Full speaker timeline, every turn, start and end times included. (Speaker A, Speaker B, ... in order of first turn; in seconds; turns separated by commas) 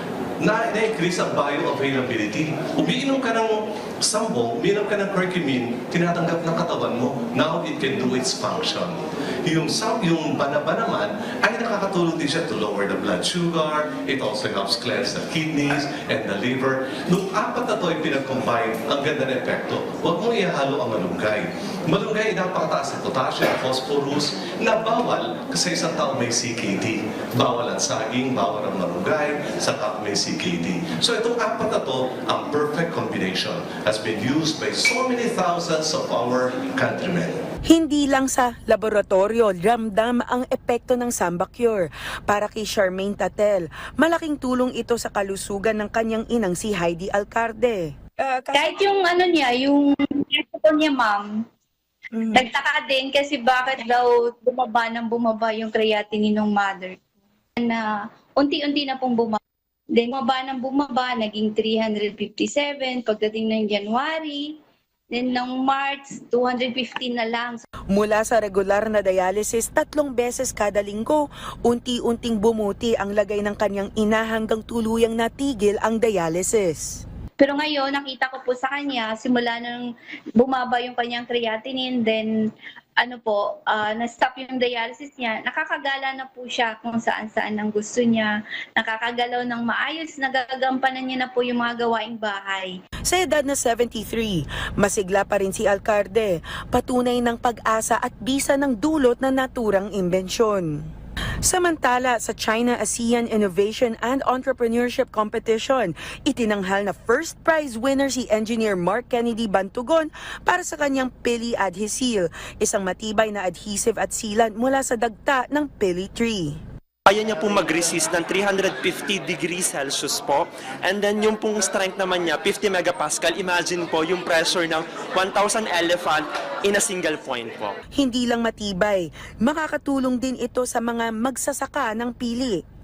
Speaker A: 0.4-37.4, Speaker B: 37.7-48.8, Speaker C: 48.5-51.3, Speaker B: 52.1-52.4, Speaker C: 52.3-57.0, Speaker C: 57.6-57.8, Speaker C: 58.4-59.4, Speaker C: 60.0-64.6, Speaker C: 65.1-67.6, Speaker B: 67.9-77.0, Speaker C: 77.4-82.3, Speaker C: 83.0-92.7, Speaker B: 93.1-100.9, Speaker B: 101.4-116.6, Speaker D: 117.1-127.8, Speaker B: 128.0-132.6